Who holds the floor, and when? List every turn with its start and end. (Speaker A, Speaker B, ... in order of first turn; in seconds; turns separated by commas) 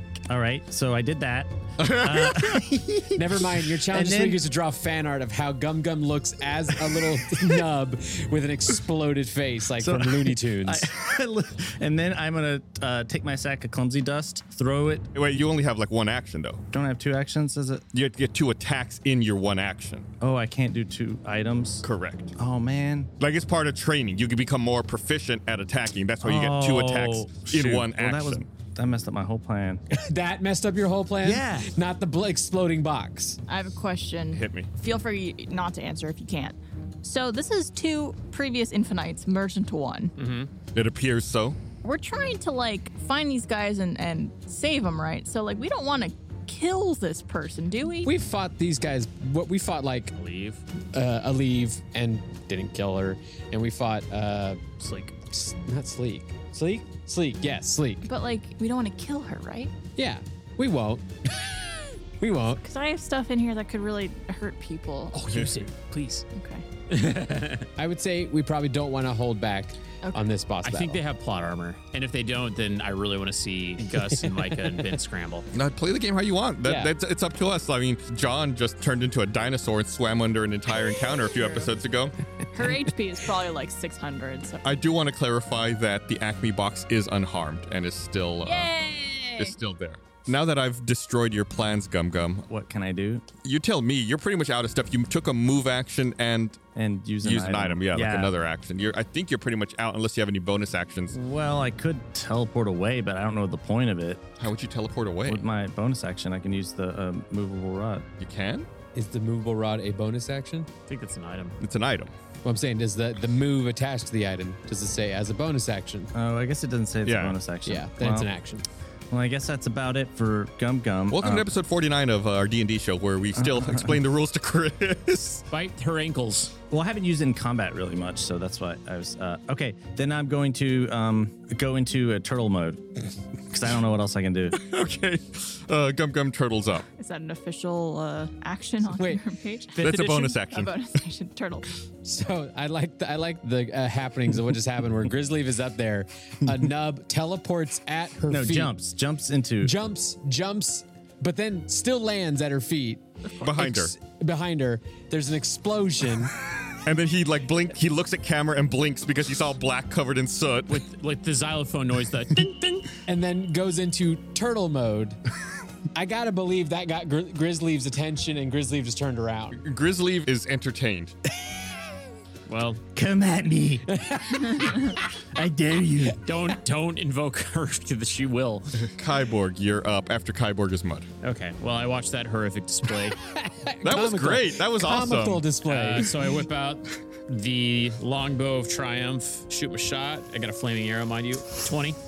Speaker A: 0.3-4.4, Speaker B: 1.8-2.6, Speaker C: 3.1-10.9, Speaker A: 9.8-15.1, Speaker B: 15.1-16.6, Speaker A: 16.7-17.8, Speaker B: 17.9-20.1, Speaker A: 20.2-21.8, Speaker B: 21.8-22.3, Speaker A: 22.4-23.1, Speaker B: 23.2-28.5, Speaker A: 26.2-29.8, Speaker C: 29.9-33.4, Speaker A: 31.2-31.7, Speaker D: 33.5-40.1, Speaker B: 34.3-34.7, Speaker E: 40.2-40.5, Speaker B: 40.7-41.6, Speaker D: 41.8-48.1, Speaker C: 48.0-50.1, Speaker E: 50.1-50.6, Speaker C: 50.9-58.0, Speaker E: 54.8-55.1, Speaker D: 58.0-59.7, Speaker C: 60.0-61.5, Speaker C: 62.2-62.6, Speaker D: 62.6-65.2, Speaker E: 65.1-66.2, Speaker D: 66.3-66.6, Speaker E: 66.9-67.7, Speaker C: 67.8-71.0, Speaker D: 70.0-70.3, Speaker E: 70.6-75.5, Speaker C: 73.9-74.8, Speaker B: 75.5-82.1, Speaker C: 76.6-76.9, Speaker D: 81.3-81.7, Speaker D: 82.5-84.7, Speaker B: 84.6-88.7, Speaker D: 88.4-89.5, Speaker B: 89.4-92.5, Speaker A: 92.5-93.2, Speaker B: 93.4-96.6, Speaker A: 96.7-98.3, Speaker B: 97.2-101.1, Speaker A: 101.1-104.3, Speaker B: 104.4-105.4, Speaker A: 105.2-108.0, Speaker B: 108.2-108.7, Speaker C: 108.9-110.7, Speaker E: 110.9-111.6, Speaker B: 111.6-112.1, Speaker C: 112.4-116.1, Speaker A: 116.1-118.3, Speaker B: 117.0-117.4, Speaker C: 117.6-118.6, Speaker A: 119.1-121.5, Speaker B: 121.1-125.4, Speaker A: 123.3-124.0, Speaker E: 125.5-126.5, Speaker A: 126.7-132.8, Speaker A: 133.5-134.6, Speaker B: 134.5-136.8, Speaker D: 137.0-141.7, Speaker C: 138.9-139.2, Speaker B: 139.8-140.7, Speaker C: 142.0-148.7, Speaker A: 148.3-149.8, Speaker C: 149.6-156.3, Speaker B: 153.4-153.9, Speaker B: 156.8-160.8, Speaker E: 160.7-162.9, Speaker C: 163.1-165.2, Speaker C: 165.9-169.6, Speaker B: 169.5-171.1, Speaker E: 172.5-172.8, Speaker A: 172.9-173.9, Speaker C: 173.9-175.0, Speaker A: 174.9-176.2, Speaker E: 176.2-178.8, Speaker B: 178.8-181.1, Speaker E: 181.2-183.2, Speaker C: 183.3-186.1, Speaker B: 183.8-185.5, Speaker E: 185.6-192.0